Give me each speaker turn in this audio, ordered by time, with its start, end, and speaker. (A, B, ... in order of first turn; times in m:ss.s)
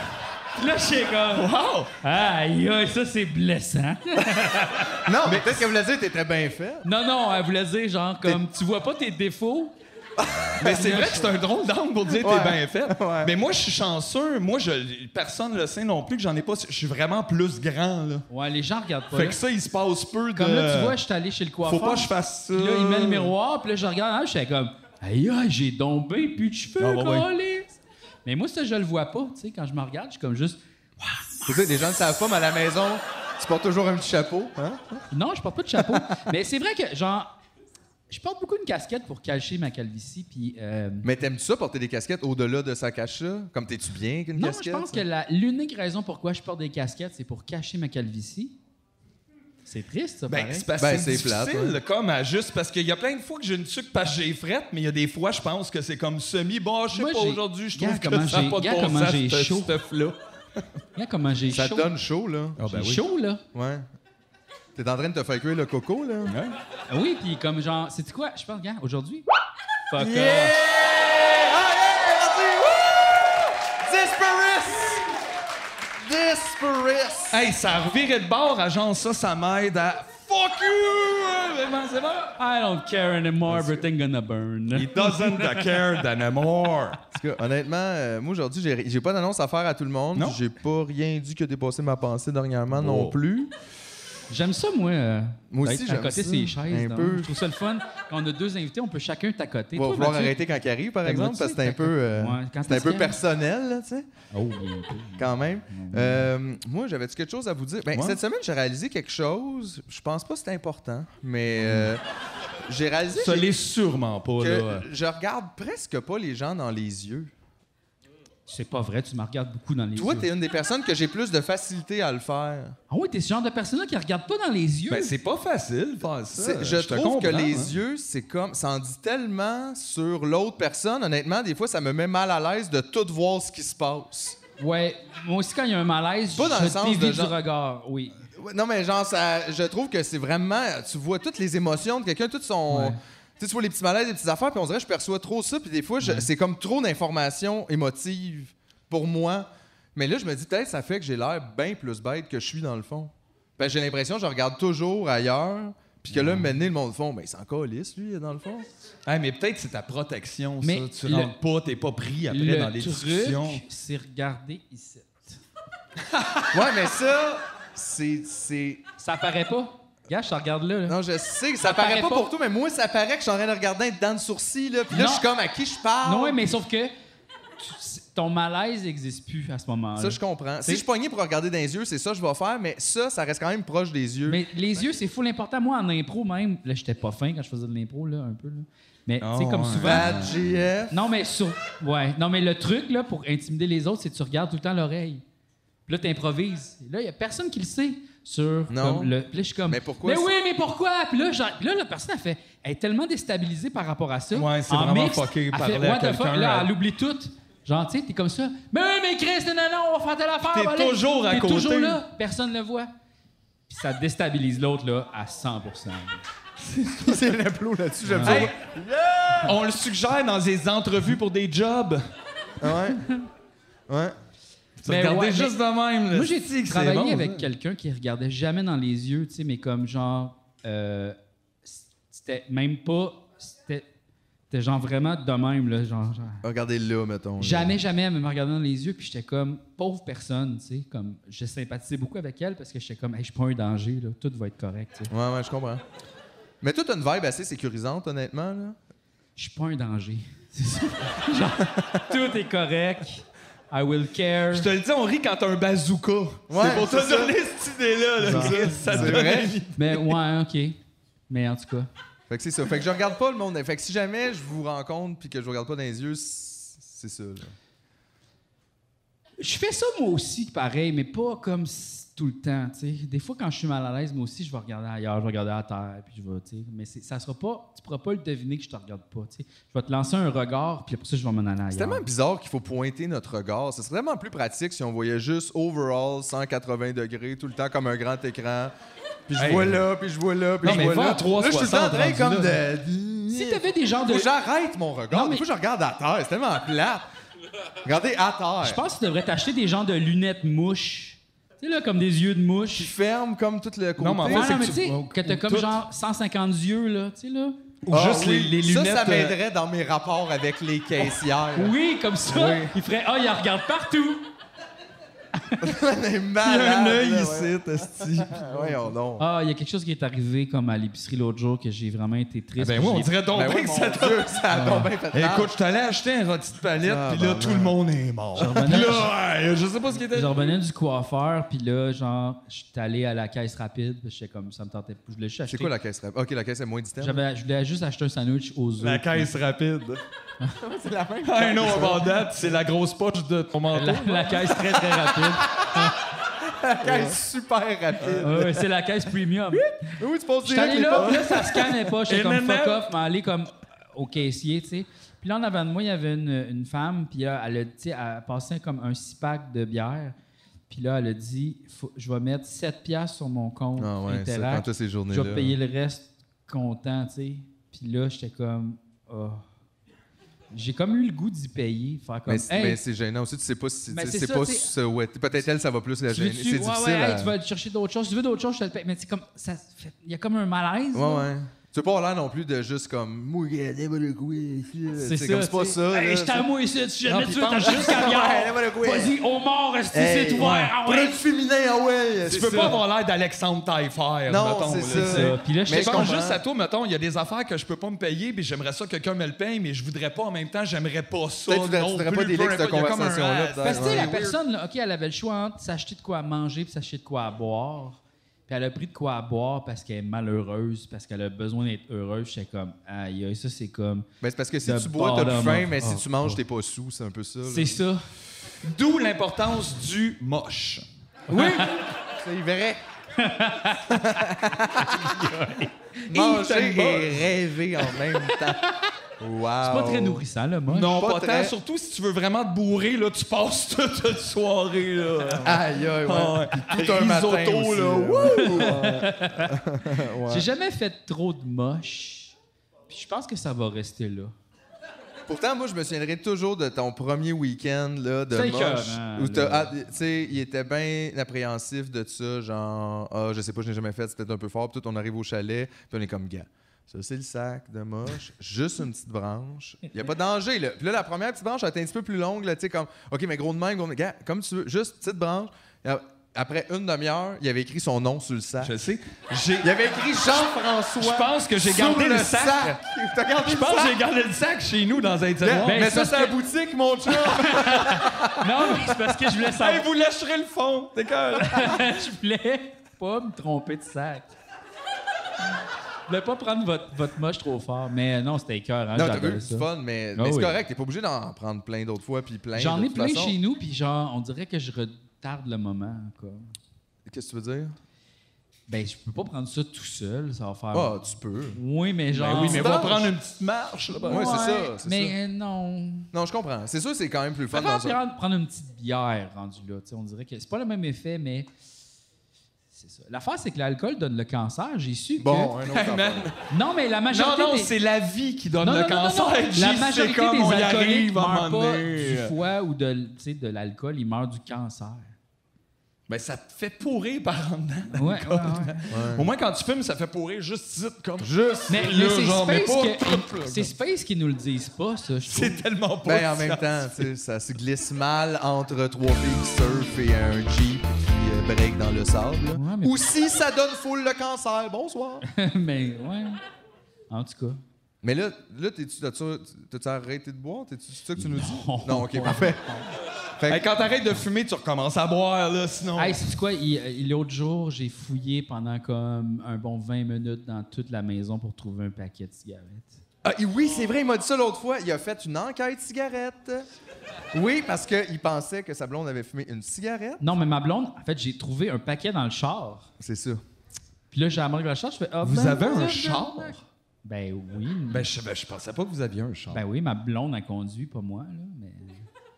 0:00.6-0:01.5 A
0:01.3-0:01.9 B
0:02.0-0:05.0 A
0:05.0-0:06.8 C
0:05.3-0:05.6 B
0:06.8-0:09.7 A
0:10.2-0:11.2 C
0:10.6-0:18.3 B
0:12.2-0:13.3 C
0:18.3-0:19.4 A
0:19.1-0:21.0 B
0:20.4-0:27.7 A
0:21.6-0:23.3 B
0:26.8-0:27.3 B
0:28.2-0:30.6 A
0:31.5-0:35.0 C
0:35.1-0:37.3 A
0:38.1-0:41.1 A
0:41.0-0:45.0 C
0:44.4-0:48.6 A
0:49.6-0:50.7 A
0:50.3-1:00.2 B
0:50.8-0:51.8 C
0:56.9-0:59.7 A
1:01.0-1:01.9 A
1:01.5-1:02.6 C
1:02.6-1:03.1 B
1:02.6-1:03.4 A
1:03.5-1:03.9 C
1:04.8-1:06.4 C
1:06.3-1:06.6 B
1:06.9-1:09.3 A
1:09.9-1:10.5 A
1:10.0-1:15.0 C
1:16.0-1:17.4 C
1:17.3-1:22.4 B
1:22.4-1:25.7 A
1:24.7-1:27.0 B
1:27.1-1:33.5 C
1:32.7-1:33.2 B
1:34.3-1:40.4 A
1:35.5-1:37.4 C
1:39.8-1:44.1 C
1:41.0-1:43.2 A
1:44.3-1:46.3 A
1:45.2-1:52.0 C
1:47.9-1:48.2 B
1:52.7-1:53.5 C
1:53.2-1:54.9 B
1:54.4-1:57.3 C
1:58.5-2:00.3 A
2:00.0-2:02.8 C
2:02.9-2:05.1 A
2:04.9-2:07.8 B
2:06.3-2:14.4 C
2:14.6-2:18.2 A
2:16.3-2:17.4 C
2:18.3-2:38.7 C
2:22.7-2:23.0 A
2:26.0-2:26.3 A
2:39.1-2:43.6 B
2:40.6-2:41.3 A
2:42.3-2:45.4 A
2:46.1-2:46.5 B
2:46.5-2:48.8 C
2:49.0-2:51.0 A
2:50.9-2:56.4 C
2:51.6-2:52.3 A
2:54.9-2:55.3 A
2:56.0-2:56.9 A
2:57.6-3:00.8 A
3:00.0-3:04.4 C
3:04.3-3:10.1 A
3:09.2-3:10.4 B
3:09.8-3:11.0 C
3:10.9-3:15.2 A
3:15.9-3:32.9 A
3:18.7-3:19.1 C
3:19.7-3:20.3 C
3:24.3-3:26.7 B
3:30.5-3:32.0 B
3:33.7-3:36.2 A
3:36.6-3:37.4 B
3:37.0-3:38.5 C
3:38.1-3:38.5 A
3:38.2-3:42.0 B
3:42.6-3:43.0 C
3:43.9-3:44.2 C
3:44.8-3:47.5 B
3:44.8-3:45.6 A
3:46.1-3:53.9 A
3:54.5-3:56.4 A
3:56.4-3:57.8 C
3:57.4-4:05.1 A
4:05.1-4:05.8 C
4:06.6-4:08.8 C
4:09.4-4:14.7 A
4:14.5-4:20.1 B
4:16.5-4:17.4 C
4:18.2-4:19.6 C
4:18.2-4:20.8 A
4:21.3-4:21.9 A
4:22.3-4:27.5 C
4:29.4-4:42.1 A
4:41.7-4:48.7 C
4:49.3-4:57.1 C
4:49.4-4:49.8 B
4:50.6-4:52.6 B
4:53.3-4:54.3 A
4:55.1-4:55.4 A
4:57.8-4:58.8 C
4:58.6-5:02.9 A
5:02.7-5:04.5 C
5:04.0-5:05.8 B
5:04.3-5:07.6 A
5:07.8-5:09.4 B
5:07.9-5:11.7 C
5:11.6-5:14.3 A
5:12.3-5:12.7 C
5:15.6-5:19.2 C
5:16.4-5:18.5 B
5:19.2-5:23.1 A
5:22.6-5:24.4 B
5:23.3-5:25.5 C
5:24.5-5:24.9 A
5:25.1-5:30.6 B
5:26.8-5:27.8 C
5:28.4-5:29.1 A
5:30.1-5:35.7 A
5:35.5-5:37.2 C
5:37.0-5:39.3 A
5:38.8-5:40.0 B
5:40.6-5:42.2 C
5:41.2-5:44.6 B
5:43.7-5:45.9 A
5:46.5-5:48.6 C
5:48.2-5:49.7 A
5:50.0-5:51.7 C
5:50.4-6:00.2 A
5:51.0-5:52.9 B
6:00.7-6:09.4 A
6:03.8-6:05.6 C
6:10.5-6:12.8 A
6:12.3-6:17.4 C
6:13.9-6:14.7 A
6:16.1-6:21.3 A
6:20.9-6:26.5 C
6:25.0-6:31.2 A
6:27.1-6:28.5 B
6:27.6-6:29.1 C
6:29.9-6:32.8 C
6:30.4-6:30.7 B
6:32.2-6:44.4 B
6:32.5-6:32.8 A
6:34.3-6:36.4 C
6:34.9-6:36.2 A
6:41.5-6:44.2 C
6:43.6-6:54.1 A
6:54.2-6:57.8 C
6:54.6-6:56.4 A
6:57.4-6:58.0 A
6:58.6-7:00.8 B
7:01.3-7:01.8 A
7:01.3-7:02.8 C
7:03.2-7:04.2 A
7:03.9-7:05.1 C
7:04.8-7:05.9 A
7:06.1-7:08.6 C
7:06.1-7:07.2 B
7:09.2-7:10.2 C
7:09.6-7:11.0 A
7:10.7-7:18.9 B
7:11.0-7:11.5 C
7:15.4-7:20.5 C
7:18.5-7:19.5 A
7:20.3-7:22.4 A
7:22.9-7:24.3 A
7:25.3-7:48.7 C
7:28.3-7:29.7 A
7:48.6-7:49.8 B
7:49.6-7:54.0 C
7:51.0-7:52.8 B
7:53.4-7:56.0 B
7:55.4-7:58.3 C
7:55.7-7:56.4 A
7:57.1-7:59.8 A
7:59.5-8:01.8 B
8:01.4-8:04.3 A
8:06.1-8:10.6 A
8:08.9-8:13.4 C
8:12.6-8:16.5 A
8:17.1-8:17.8 C
8:18.7-8:21.0 A
8:20.7-8:21.6 C
8:21.5-8:23.1 A
8:22.1-8:24.4 B
8:22.4-8:23.1 C
8:24.0-8:26.1 A
8:24.1-8:25.2 C
8:26.1-8:28.0 C
8:27.5-8:31.5 A
8:32.7-8:35.6 A
8:35.2-8:36.3 C
8:35.7-8:36.4 B
8:36.5-8:37.7 A
8:37.1-8:42.4 B
8:38.6-8:45.2 A
8:46.1-8:53.7 B
8:48.0-8:48.8 A
8:48.9-8:49.3 C
8:51.2-8:51.8 C
8:51.7-8:55.6 A
8:55.3-8:57.1 B
8:56.0-9:05.3 C
9:02.5-9:03.0 A
9:05.3-9:06.4 A
9:07.1-9:07.6 A
9:08.0-9:12.8 C
9:11.2-9:12.9 A
9:13.4-9:13.7 C
9:13.5-9:16.3 B
9:16.0-9:23.0 A
9:23.2-9:26.7 C
9:27.3-9:30.3 C
9:30.2-9:32.9 A
9:33.0-9:33.4 C
9:34.1-9:36.5 A
9:35.2-9:36.6 B
9:35.4-9:35.6 C
9:37.0-9:38.1 A
9:37.9-9:39.6 B
9:39.5-9:42.1 A